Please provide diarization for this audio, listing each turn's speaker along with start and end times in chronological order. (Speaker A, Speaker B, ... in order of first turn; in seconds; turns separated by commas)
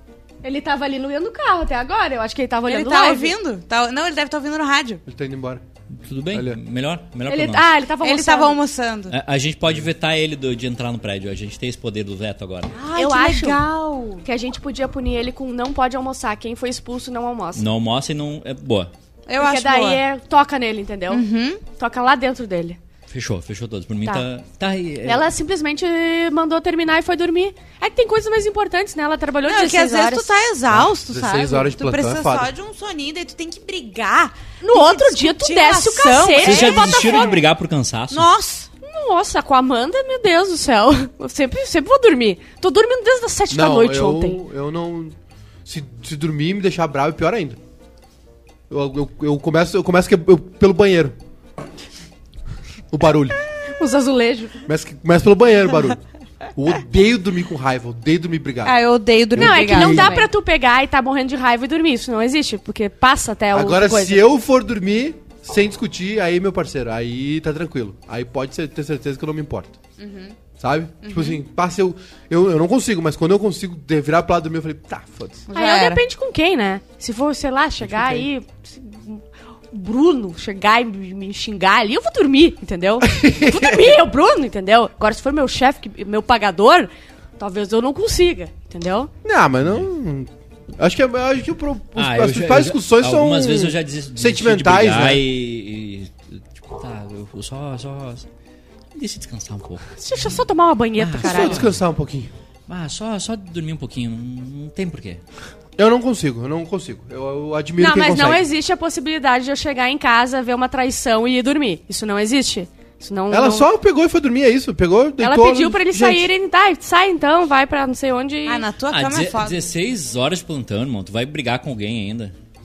Speaker A: 0.4-3.3, Speaker B: 2.7-5.0, Speaker C: 5.1-5.6, Speaker D: 6.0-7.7, Speaker C: 6.3-6.6, Speaker A: 7.3-8.6, Speaker B: 8.0-9.2, Speaker D: 9.1-12.7, Speaker B: 12.8-14.2, Speaker A: 12.9-13.6, Speaker A: 14.2-17.6, Speaker D: 17.6-18.9, Speaker B: 19.3-20.0, Speaker A: 19.4-22.8, Speaker B: 21.1-21.6, Speaker D: 23.1-25.3, Speaker A: 25.1-30.3, Speaker B: 29.4-37.4, Speaker C: 30.7-32.5, Speaker A: 34.6-37.4, Speaker D: 36.4-38.3, Speaker B: 38.1-38.7, Speaker A: 38.8-44.4, Speaker C: 43.5-45.1, Speaker C: 45.7-47.6, Speaker C: 48.7-51.1, Speaker C: 52.9-53.4, Speaker A: 53.8-54.6, Speaker C: 54.7-56.0, Speaker C: 56.6-58.8, Speaker B: 58.6-60.3, Speaker C: 59.4-60.2, Speaker A: 59.4-64.2, Speaker C: 63.5-69.8, Speaker B: 70.0-70.4, Speaker C: 70.5-75.5, Speaker B: 71.0-71.4, Speaker B: 75.5-76.0, Speaker A: 75.5-89.1, Speaker C: 77.8-78.3, Speaker C: 83.0-84.0, Speaker C: 89.2-95.2, Speaker D: 92.0-98.3, Speaker D: 99.0-100.3, Speaker A: 100.0-101.6, Speaker D: 101.0-101.8, Speaker C: 101.2-102.3, Speaker D: 102.7-105.2, Speaker C: 105.8-108.4, Speaker A: 107.8-113.7, Speaker C: 113.3-116.3, Speaker A: 115.2-118.7, Speaker B: 118.5-119.6, Speaker D: 118.9-122.3